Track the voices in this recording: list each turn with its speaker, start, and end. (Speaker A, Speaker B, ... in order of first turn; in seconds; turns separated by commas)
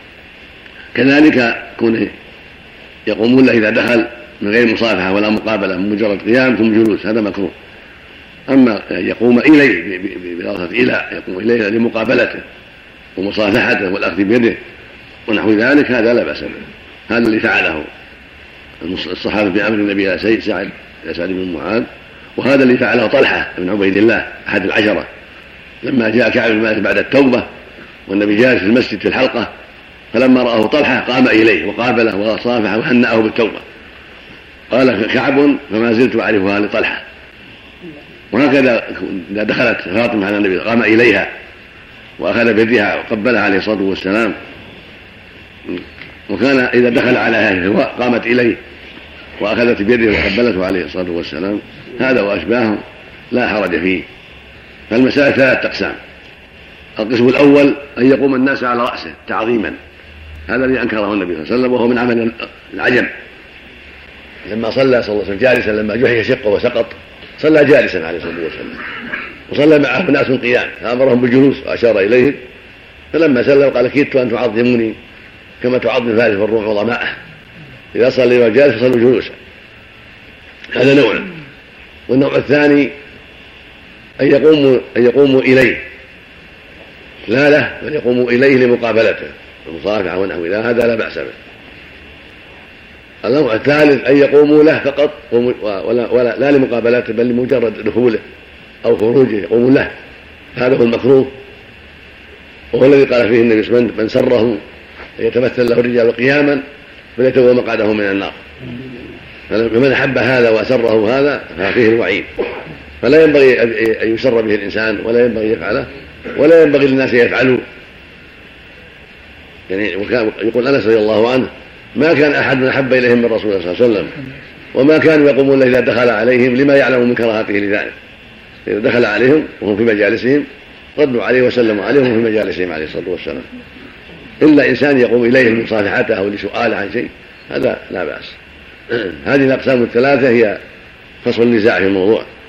Speaker A: 0.9-2.1, Speaker A: 3.1-7.5, Speaker A: 8.5-12.4, Speaker A: 13.2-14.6, Speaker A: 15.3-17.9, Speaker A: 18.8-25.1, Speaker A: 25.8-27.5, Speaker A: 28.1-29.5, Speaker A: 30.1-33.6, Speaker A: 34.7-37.0, Speaker A: 38.3-41.3, Speaker A: 42.2-44.4, Speaker A: 45.7-48.6, Speaker A: 49.4-54.0, Speaker A: 54.9-56.0, Speaker A: 57.0-59.8, Speaker A: 60.5-63.1, Speaker A: 64.5-68.9, Speaker A: 69.5-72.4, Speaker A: 73.1-75.0, Speaker A: 75.6-77.2, Speaker A: 77.9-79.4, Speaker A: 80.7-81.3, Speaker A: 82.1-82.9, Speaker A: 84.2-85.8, Speaker A: 87.3-91.3, Speaker A: 93.2-98.2, Speaker A: 98.8-99.9, Speaker A: 100.5-101.3, Speaker A: 102.7-104.6, Speaker A: 105.2-106.6, Speaker A: 107.2-108.4, Speaker A: 109.5-112.3, Speaker A: 113.0-117.6, Speaker A: 119.7-124.2, Speaker A: 124.7-127.9, Speaker A: 128.7-133.5, Speaker A: 134.4-138.4, Speaker A: 138.9-140.6, Speaker A: 141.2-142.3